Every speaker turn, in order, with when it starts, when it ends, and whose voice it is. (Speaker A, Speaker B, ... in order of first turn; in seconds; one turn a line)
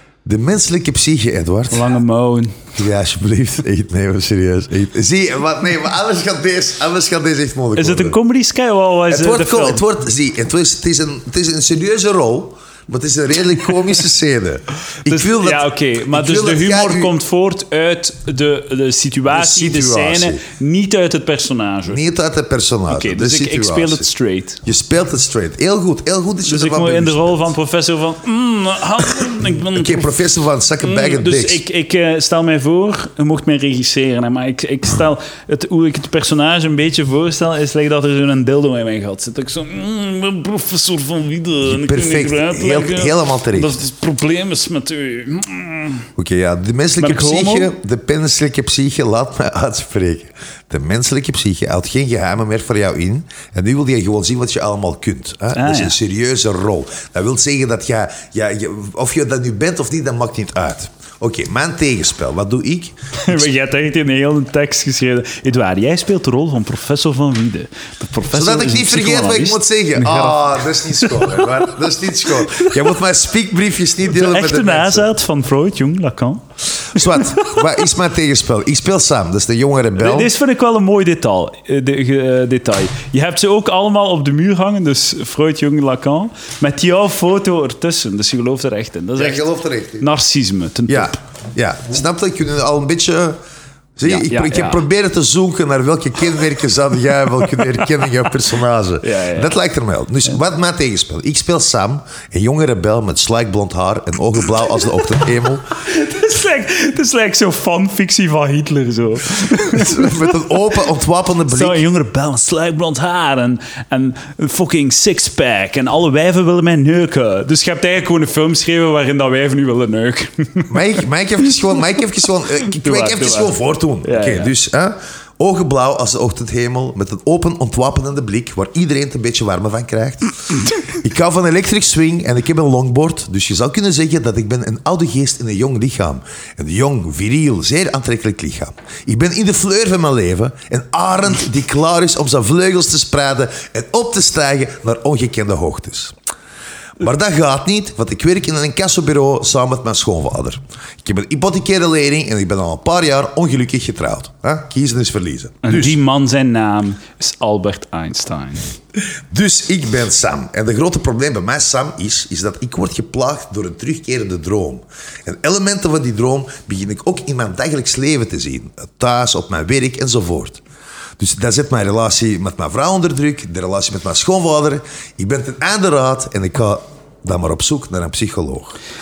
Speaker A: 0.2-1.8
Speaker B: 1.7-2.6
Speaker A: 2.8-8.2
Speaker B: 7.8-9.8
Speaker A: 9.1-17.1
Speaker B: 15.1-22.0
Speaker A: 19.3-20.4
Speaker A: 21.9-24.1
Speaker B: 22.9-24.6
Speaker A: 24.6-27.4
Speaker B: 26.4-30.1
Speaker A: 29.3-31.6
Speaker B: 30.8-46.1
Speaker A: 41.6-43.8
Speaker A: 46.1-63.5
Speaker B: 47.0-47.7
Speaker B: 55.5-56.0
Speaker B: 63.1-71.5
Speaker A: 68.3-75.1
Speaker B: 72.5-72.8
Speaker B: 74.0-77.6
Speaker A: 76.9-80.3
Speaker B: 80.0-89.5
Speaker A: 89.2-90.1
Speaker B: 90.0-91.2
Speaker A: 90.9-93.4
Speaker A: 94.0-105.7
Speaker B: 94.0-94.8
Speaker B: 99.0-99.5
Speaker B: 105.8-110.3
Speaker A: 109.5-111.8
Speaker B: 111.5-120.8
Speaker A: 120.7-146.1
Speaker B: 122.7-124.5
Speaker A: 147.0-156.0
Speaker B: 155.6-158.7
Speaker A: 159.0-170.6
Speaker A: 171.2-178.8